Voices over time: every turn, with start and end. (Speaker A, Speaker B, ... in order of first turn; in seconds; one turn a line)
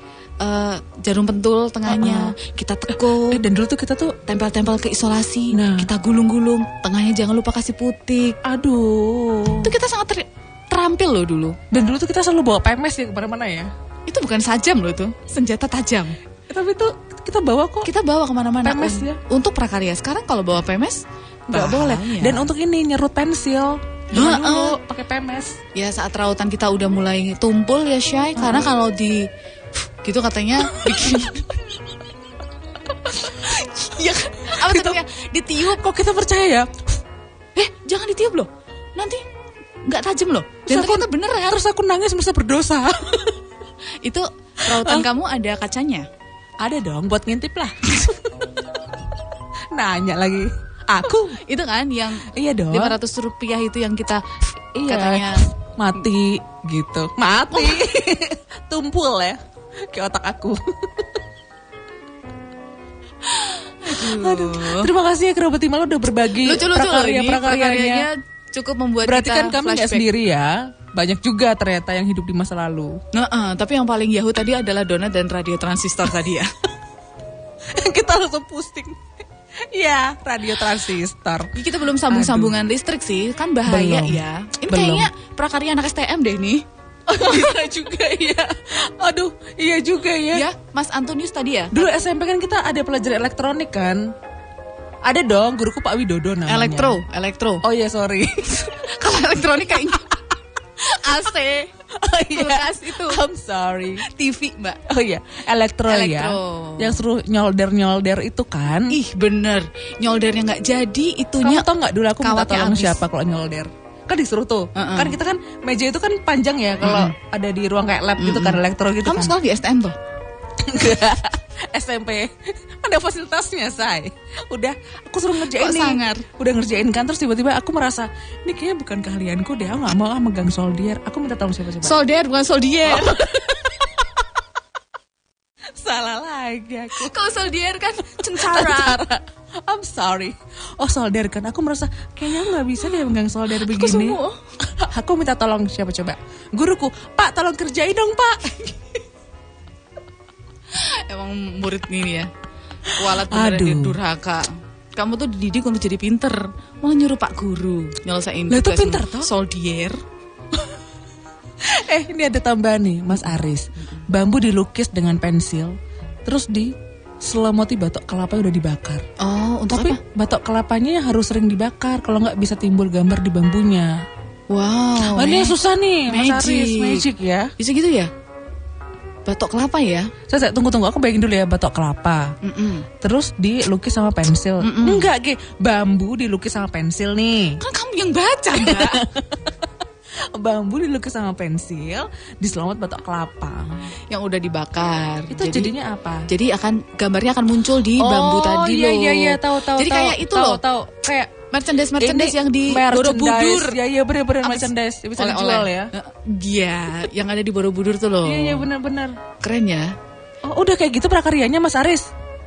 Speaker A: 0.4-3.4
Speaker B: 1.9-2.3
Speaker B: 3.2-4.2
Speaker A: 4.2-8.4
Speaker B: 5.5-5.9
Speaker B: 8.4-9.7
Speaker A: 9.6-11.6
Speaker B: 11.7-13.7
Speaker A: 14.1-16.1
Speaker B: 16.5-17.9
Speaker A: 17.8-22.5
Speaker B: 18.6-19.2
Speaker B: 21.5-25.6
Speaker A: 24.1-24.8
Speaker A: 25.7-29.2
Speaker B: 28.4-28.7
Speaker A: 30.0-31.5
Speaker B: 30.6-31.3
Speaker A: 33.5-35.8
Speaker B: 33.5-35.0
Speaker B: 35.6-36.8
Speaker A: 37.5-39.2
Speaker A: 39.9-41.6
Speaker B: 40.7-43.4
Speaker A: 44.0-46.0
Speaker B: 44.7-45.0
Speaker B: 46.6-48.1
Speaker B: 49.7-51.4
Speaker A: 51.5-54.2
Speaker B: 52.3-52.9
Speaker B: 54.8-61.0
Speaker A: 54.8-55.4
Speaker A: 63.3-64.9
Speaker B: 63.9-68.1
Speaker A: 66.4-70.0
Speaker B: 69.0-72.9
Speaker A: 73.1-76.5
Speaker B: 77.7-79.0
Speaker B: 79.7-81.5
Speaker A: 81.5-86.6
Speaker B: 82.1-82.6
Speaker B: 83.7-85.1
Speaker B: 87.1-90.5
Speaker A: 87.2-87.4
Speaker A: 90.3-91.9
Speaker B: 91.7-94.0
Speaker B: 95.0-97.0
Speaker A: 96.5-97.6
Speaker B: 97.6-98.8
Speaker A: 98.6-100.2
Speaker A: 100.8-101.7
Speaker B: 102.0-104.0
Speaker A: 102.3-103.2
Speaker A: 104.0-104.8
Speaker B: 104.9-108.9
Speaker A: 105.9-107.0
Speaker A: 108.9-113.0
Speaker B: 111.4-119.3
Speaker A: 114.8-115.2
Speaker A: 116.8-117.1
Speaker A: 118.2-119.9
Speaker B: 120.6-132.0
Speaker A: 125.5-126.2
Speaker A: 131.8-133.3
Speaker B: 132.8-133.7
Speaker B: 135.8-137.1
Speaker A: 136.9-139.0
Speaker B: 138.2-148.9
Speaker A: 143.6-144.4
Speaker A: 150.8-152.3
Speaker B: 152.9-153.9
Speaker A: 152.9-160.0
Speaker B: 158.5-159.3
Speaker B: 161.6-169.0
Speaker A: 169.2-170.0
Speaker B: 169.7-173.9
Speaker A: 174.5-175.6
Speaker B: 175.0-177.5
Speaker A: 176.1-177.1
Speaker A: 177.6-178.1
Speaker A: 179.2-180.1
Speaker B: 180.3-182.3
Speaker A: 182.4-182.9
Speaker B: 183.0-187.6
Speaker A: 184.6-185.1
Speaker A: 187.6-189.0
Speaker B: 188.5-189.5
Speaker B: 190.3-193.8
Speaker A: 194.1-195.7
Speaker B: 195.3-196.3
Speaker A: 196.3-200.6
Speaker B: 198.0-201.3
Speaker A: 201.5-203.8
Speaker B: 202.0-205.9
Speaker A: 204.4-208.7
Speaker B: 208.2-209.2
Speaker A: 209.4-209.9
Speaker B: 210.4-212.1